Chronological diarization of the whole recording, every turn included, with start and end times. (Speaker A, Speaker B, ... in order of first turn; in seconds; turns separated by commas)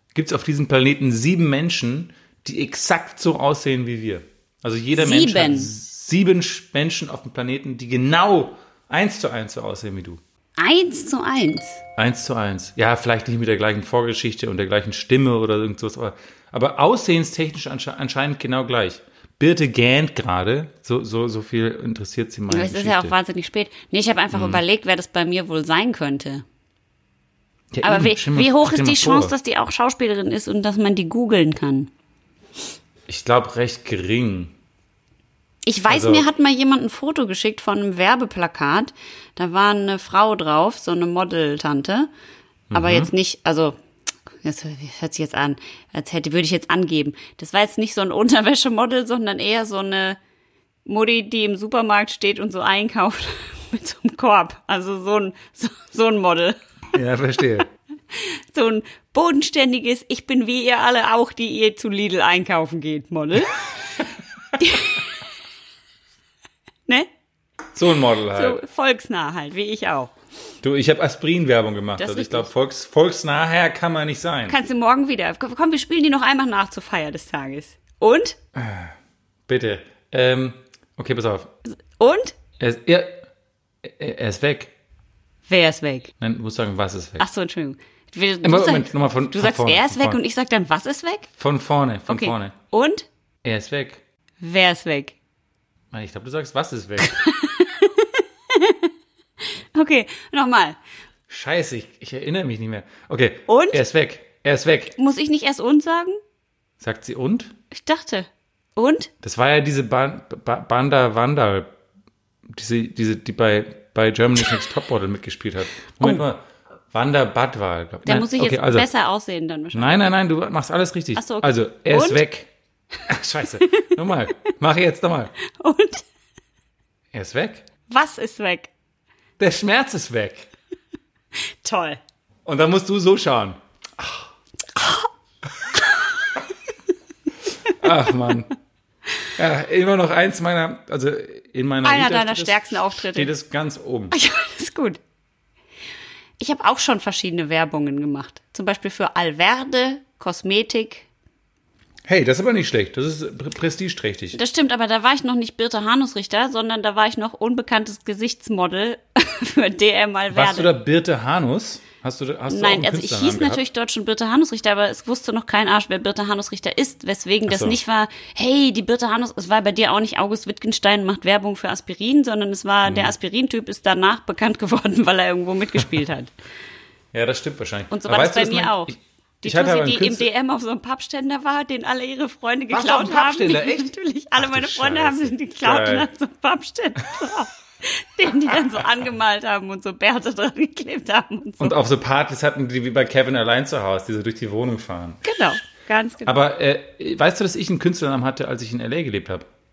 Speaker A: 0.1-10.2, Speaker B: 4.9-5.7, Speaker B: 10.6-11.8, Speaker A: 12.0-23.1, Speaker B: 22.5-26.4, Speaker A: 24.3-24.6, Speaker A: 27.7-29.3, Speaker B: 27.8-31.9, Speaker A: 33.1-34.5, Speaker B: 35.7-42.1, Speaker A: 35.9-36.3, Speaker A: 42.7-43.1, Speaker B: 42.7-43.8, Speaker B: 44.4-50.2, Speaker B: 50.9-56.6, Speaker A: 56.9-57.7, Speaker B: 58.1-63.7, Speaker B: 64.6-65.1, Speaker A: 67.8-68.6, Speaker B: 68.3-70.1, Speaker A: 70.6-74.6, Speaker B: 72.0-72.5, Speaker B: 74.5-78.4, Speaker A: 78.5-79.0, Speaker A: 79.5-81.5, Speaker B: 81.9-82.4, Speaker A: 82.6-83.2, Speaker A: 83.8-84.7, Speaker B: 85.5-86.1, Speaker A: 86.2-87.3, Speaker B: 87.2-91.3, Speaker A: 88.4-90.2, Speaker A: 91.4-92.5, Speaker B: 92.1-93.1, Speaker A: 93.4-94.0, Speaker B: 94.4-95.2, Speaker A: 95.9-97.2, Speaker B: 97.1-98.9, Speaker B: 99.7-100.8, Speaker A: 101.3-105.0, Speaker B: 103.5-103.8, Speaker B: 105.0-106.2, Speaker A: 106.8-107.5, Speaker B: 107.7-109.1, Speaker A: 109.2-111.7, Speaker A: 112.5-118.9, Speaker B: 118.0-120.0, Speaker A: 119.7-122.5, Speaker B: 121.2-122.2, Speaker A: 123.1-125.3, Speaker B: 125.5-126.1, Speaker A: 127.1-127.7, Speaker B: 127.9-128.7, Speaker A: 129.4-130.5, Speaker B: 131.6-132.0, Speaker A: 132.5-134.2, Speaker B: 134.8-135.1, Speaker B: 135.8-136.3, Speaker A: 137.7-138.5, Speaker A: 139.4-144.2, Speaker B: 141.8-143.3, Speaker B: 144.1-145.0, Speaker B: 146.4-151.1, Speaker A: 152.1-154.4, Speaker B: 154.3-160.7, Speaker A: 160.3-163.6, Speaker B: 162.5-176.3, Speaker A: 167.5-167.8, Speaker A: 172.8-173.1, Speaker A: 177.1-180.3, Speaker B: 177.9-191.8, Speaker A: 182.7-186.1, Speaker A: 191.6-195.4, Speaker B: 195.2-196.4, Speaker A: 196.3-199.5